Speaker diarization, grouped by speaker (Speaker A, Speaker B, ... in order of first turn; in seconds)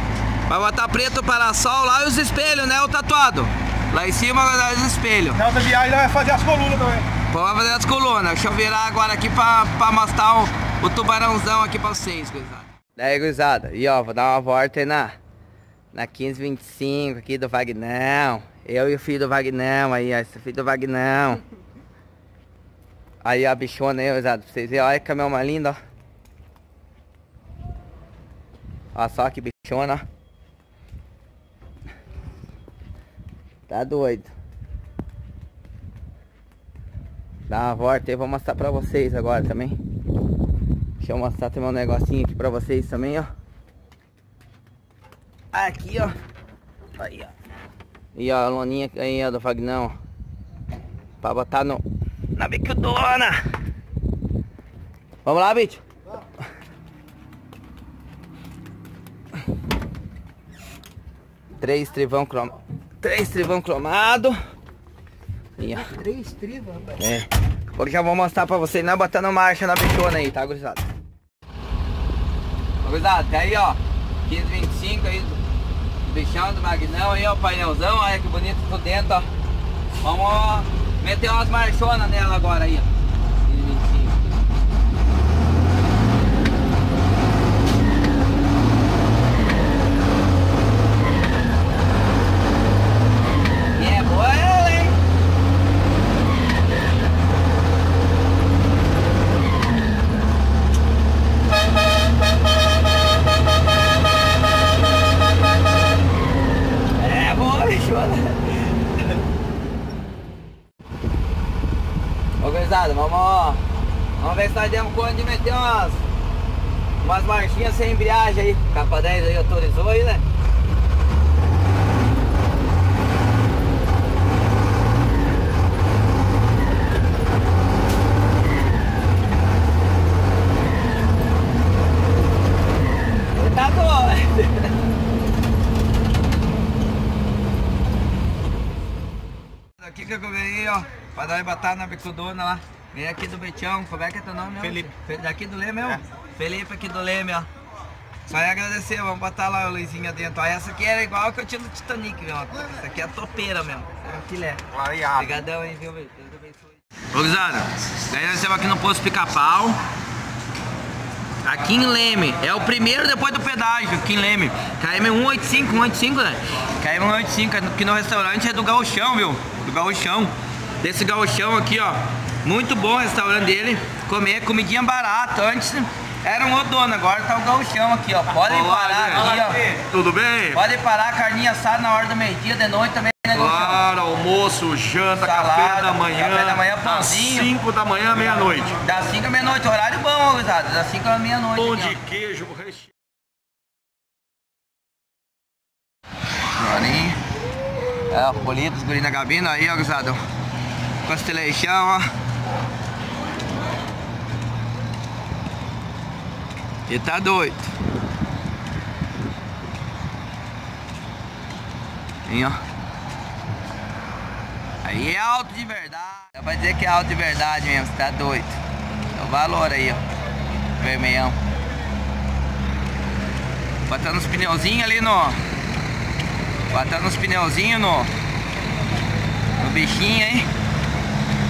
Speaker A: 0.5-5.4, 7.3-15.1, 15.9-21.4, 23.2-25.8, 28.9-30.0, 33.7-34.3, 37.5-39.8, 41.0-43.3, 45.5-46.1, 47.0-47.3, 48.1-50.0, 51.2-51.8, 52.3-53.4, 55.2-55.8, 61.6-64.4, 65.6-66.0, 67.0-70.8, 72.8-75.4, 76.0-79.3, 80.0-82.9, 83.4-84.2, 93.7-95.0, 107.0-108.8, 112.4-113.6, 114.2-116.0, 117.0-120.2, 133.3-134.7, 139.8-147.5, 148.2-159.8, 161.4-179.6, 180.5-183.8, 185.2-187.5, 188.7-192.0, 196.6-197.2, 198.1-200.2, 201.0-202.1, 206.9-207.7, 212.2-212.6, 214.8-218.6, 219.1-220.0, 220.8-221.4, 223.9-225.4, 226.7-228.1, 229.6-230.5
Speaker B: 5.4-7.0, 66.1-66.8, 179.2-179.8
Speaker C: 178.4-179.3, 179.8-180.6, 183.3-188.8, 191.6-192.8